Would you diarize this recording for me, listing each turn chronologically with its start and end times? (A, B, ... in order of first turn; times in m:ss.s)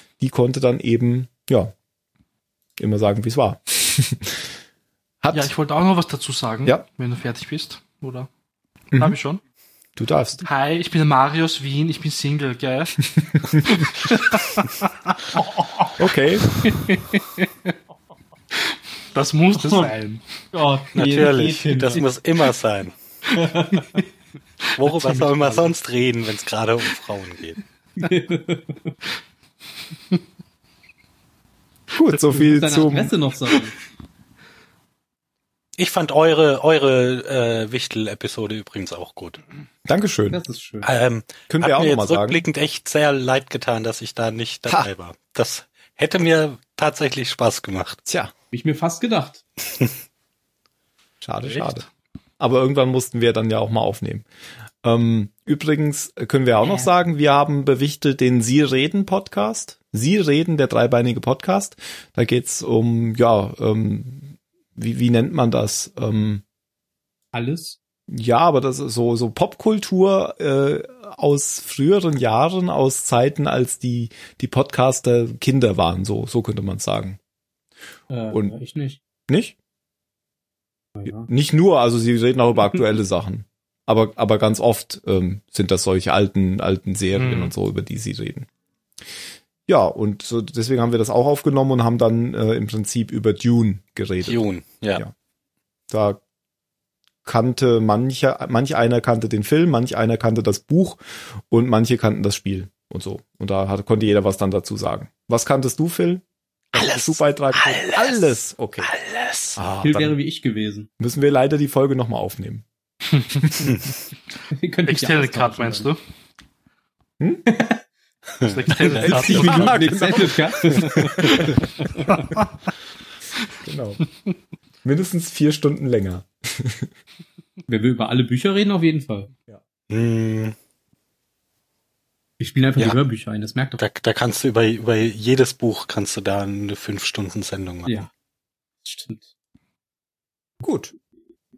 0:00.2-0:01.7 A
0:02.8-0:04.5 A
0:05.2-0:05.5 A
0:05.3-0:08.3 B
0:08.9-0:09.4 B
0:10.0-0:10.4 A
0:10.4-0:13.0 B
0:13.1-0:13.8 A
0:13.7-0:14.8 B
0:15.4-0:15.8 C
0:16.0-0:16.6 A
0:19.1-0:20.2 B
0:19.5-0:19.9 C
0:20.5-0:22.0 C
0:20.9-0:22.9 D
0:23.3-0:24.0 C
0:24.8-0:27.6 D
0:24.8-0:25.7 B
0:28.0-0:28.9 C
0:31.9-0:33.1 A
0:32.3-0:33.7 C
0:35.8-0:39.4 D
0:39.8-0:40.4 A
0:40.3-0:40.9 C
0:40.8-0:48.0 D
0:41.5-0:42.4 A
0:48.0-0:48.3 A
0:48.5-0:49.4 C
0:51.2-0:51.8 A
0:52.4-0:54.2 A
0:54.8-1:06.4 A
1:07.3-1:07.8 C
1:08.1-1:17.2 A
1:18.1-1:19.0 C
1:19.3-1:19.6 A
1:21.0-1:21.3 C
1:21.0-1:28.5 A
1:27.2-1:27.5 B
1:29.7-1:34.4 A
1:34.2-1:35.0 D
1:35.9-1:36.2 A
1:37.2-1:48.9 A
1:46.7-1:48.3 D
1:48.8-1:49.6 D
1:49.6-1:50.2 A
1:49.8-1:50.9 C
1:51.0-1:52.6 A
1:54.5-1:55.9 C
1:54.9-1:56.0 B
1:57.5-1:57.8 C
1:58.4-1:59.8 D
1:58.5-2:00.3 B
1:58.9-2:02.2 C
1:59.3-1:59.9 A
2:00.8-2:01.1 D
2:03.6-2:04.0 A
2:04.8-2:06.9 A
2:07.7-2:09.3 C
2:09.9-2:10.5 D
2:12.4-2:13.8 C
2:13.8-2:17.9 D
2:18.8-2:19.3 C
2:20.6-2:20.9 A